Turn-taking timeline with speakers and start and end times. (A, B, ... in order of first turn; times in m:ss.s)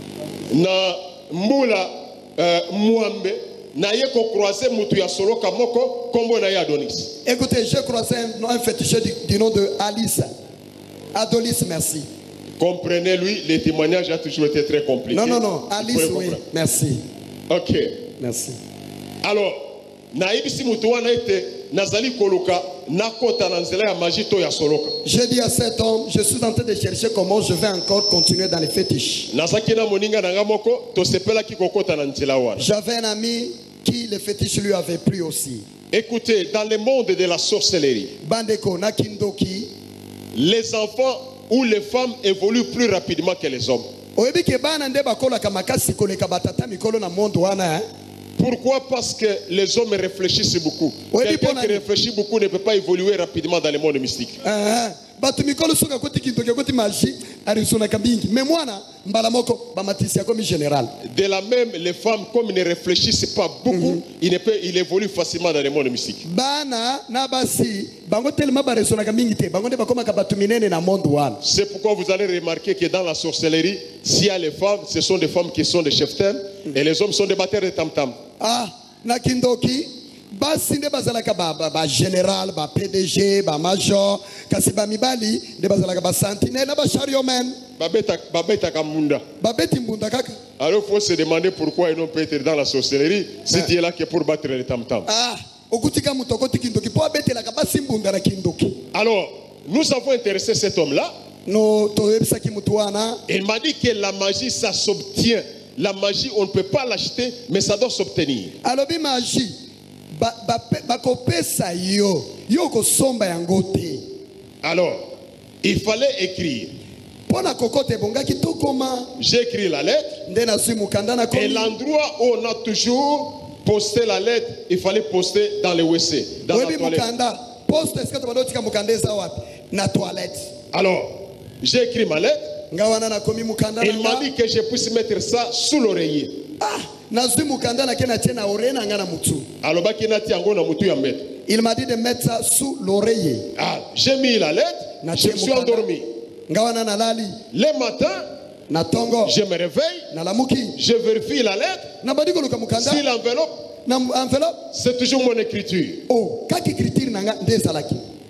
0:00.5-0:07.1 A
0:07.2-0:10.3 B
0:11.1-0:12.0 B
0:12.6-0:16.4 A
0:15.1-0:17.0 B
0:17.5-0:18.0 A
0:18.2-0:18.6 B
0:19.2-0:25.0 A
0:25.0-0:29.3 B
0:29.3-0:32.7 A
0:32.6-0:35.6 B
0:35.9-0:38.1 A
0:38.2-0:39.7 B
0:40.3-0:43.9 A
0:44.2-0:47.9 B
0:48.4-0:54.4 A
0:51.1-0:51.8 B
0:54.4-1:00.9 B
1:01.0-1:06.2 A
1:03.7-1:04.0 B
1:06.2-1:11.4 B
1:11.4-1:18.2 A
1:18.4-1:27.6 B
1:27.8-1:29.3 A
1:29.4-1:30.4 B
1:30.6-1:35.1 A
1:35.1-1:38.8 B
1:38.9-1:41.1 A
1:41.5-1:43.2 B
1:43.3-1:48.6 A
1:48.6-1:49.6 B
1:50.1-1:54.0 B
1:54.6-1:55.1 A
1:55.6-1:56.8 A
1:57.3-1:59.1 B
1:59.2-2:00.2 A
2:00.3-2:01.8 B
2:01.3-2:07.0 A
2:06.5-2:10.5 B
2:10.7-2:12.6 A
2:12.7-2:14.3 B
2:13.8-2:16.4 A
2:16.6-2:19.5 B
2:19.6-2:21.4 A
2:21.5-2:23.5 B
2:23.6-2:26.0 A
2:25.0-2:25.9 B
2:26.5-2:27.4 B
2:27.5-2:28.3 A
2:28.7-2:29.4 B
2:29.2-2:30.1 A
2:30.1-2:30.8 B
2:30.8-2:31.9 A
2:32.0-2:33.0 B
2:32.8-2:33.7 A
2:33.9-2:34.6 B
2:34.7-2:36.1 A
2:36.1-2:38.0 B